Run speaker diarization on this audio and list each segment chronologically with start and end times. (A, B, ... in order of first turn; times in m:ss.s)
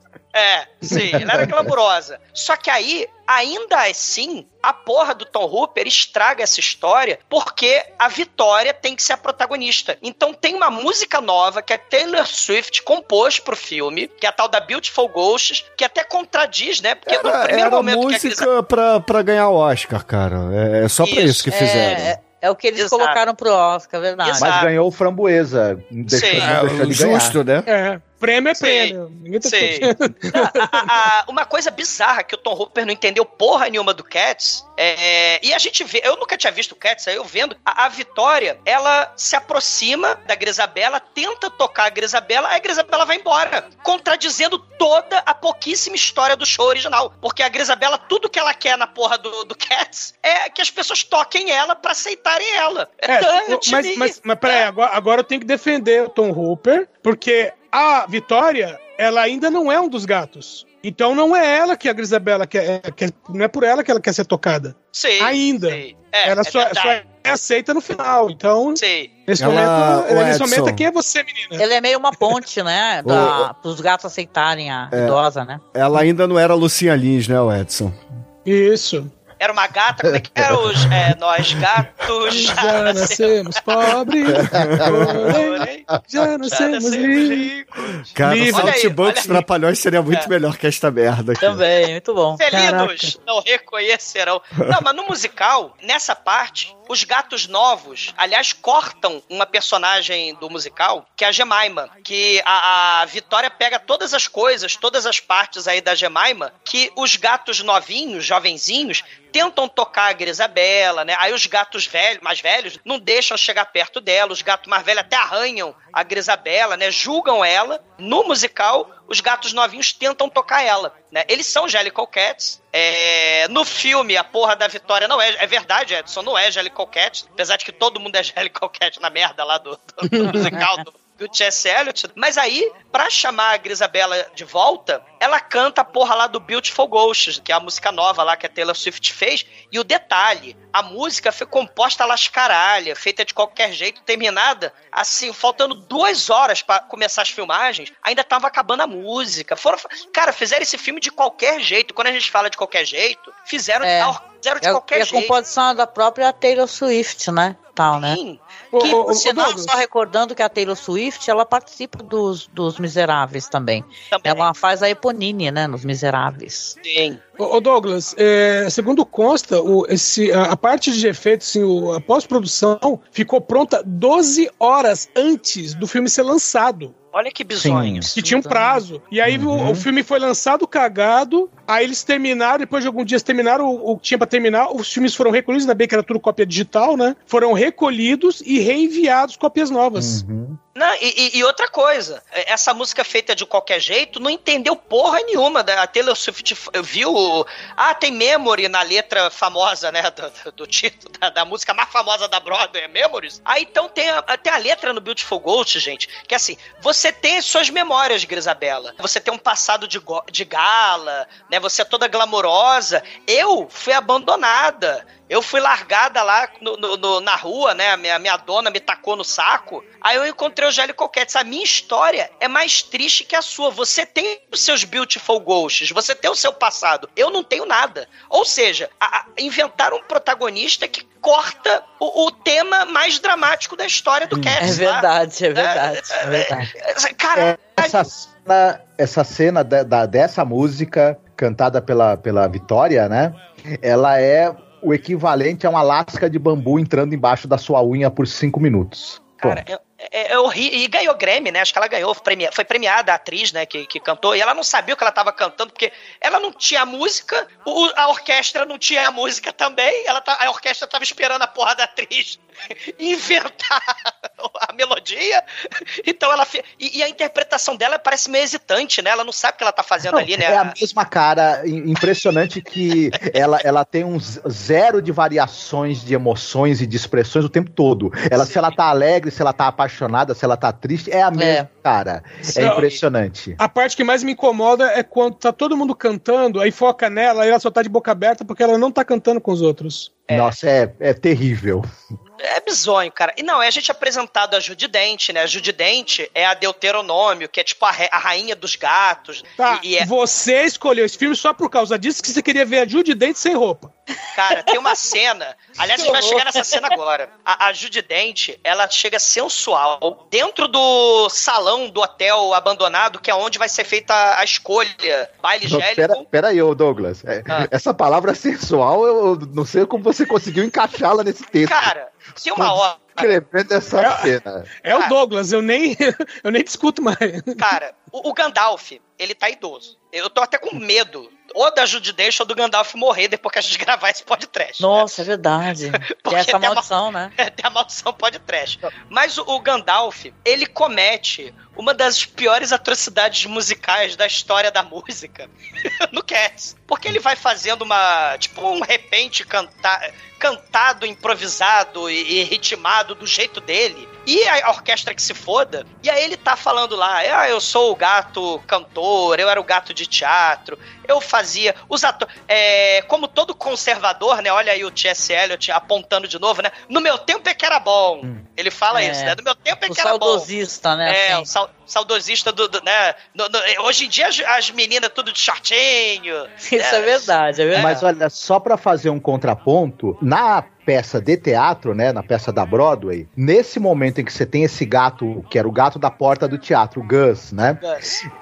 0:00.3-0:18.5 A
0:17.0-0:22.2 B
0:21.0-0:21.5 A
0:21.5-0:24.5 C
0:22.8-0:23.2 A
0:24.2-0:24.7 A
0:24.4-0:27.4 D
0:26.1-0:26.5 A
0:26.4-0:27.7 B
0:27.7-0:30.9 E
0:28.6-0:54.6 A
0:53.1-1:11.6 E
1:04.9-1:07.0 A
1:08.8-1:09.1 A
1:09.4-1:10.8 B
1:11.6-1:15.6 C
1:13.0-1:13.5 B
1:14.9-1:15.2 B
1:15.7-1:18.0 B
1:18.4-1:19.1 E
1:19.4-1:23.9 A
1:20.2-1:20.8 D
1:22.3-1:27.5 E
1:24.3-1:25.4 D
1:24.4-1:25.2 B
1:25.3-1:25.9 A
1:26.4-1:29.4 A
1:28.2-1:31.6 B
1:28.2-1:28.8 E
1:31.4-1:32.4 C
1:32.4-2:35.3 A
1:32.5-1:33.1 E
2:10.0-2:10.6 E
2:33.8-2:38.2 C
2:37.9-2:38.4 A
2:38.7-2:39.8 E
2:38.8-2:46.8 C
2:44.1-2:44.5 A
2:46.8-2:47.2 A
2:47.4-2:56.9 E
2:57.1-2:58.2 A
2:57.6-2:58.1 D
2:58.1-3:10.2 E
2:58.2-2:58.8 C
2:59.2-2:59.8 D
3:10.0-3:10.6 D
3:10.8-3:58.1 A
3:54.3-3:54.8 D
3:54.6-3:56.7 C
3:57.4-4:09.6 D
4:09.4-4:22.4 A
4:23.0-4:25.4 A
4:26.0-4:30.8 A
4:30.1-4:43.6 D
4:38.3-4:38.7 A
4:41.4-4:41.7 C
4:42.6-4:42.9 E
4:43.6-4:50.2 E
4:50.3-4:50.6 A
4:50.3-4:51.8 D
4:52.4-5:00.1 A
4:59.6-5:03.9 E
5:04.3-5:16.2 A
5:04.6-5:05.0 C
5:05.9-5:06.9 C
5:15.7-5:21.9 D
5:21.6-5:23.3 A
5:22.5-5:24.7 D
5:24.0-5:27.6 E
5:27.6-5:35.1 A
5:34.8-5:37.3 C
5:36.2-5:36.9 A
5:37.4-5:45.5 A
5:46.1-6:10.5 A
6:08.9-6:09.4 C
6:09.9-6:11.5 C
6:11.0-6:18.0 A
6:16.6-6:17.9 C
6:17.7-6:27.9 D
6:27.8-6:28.2 A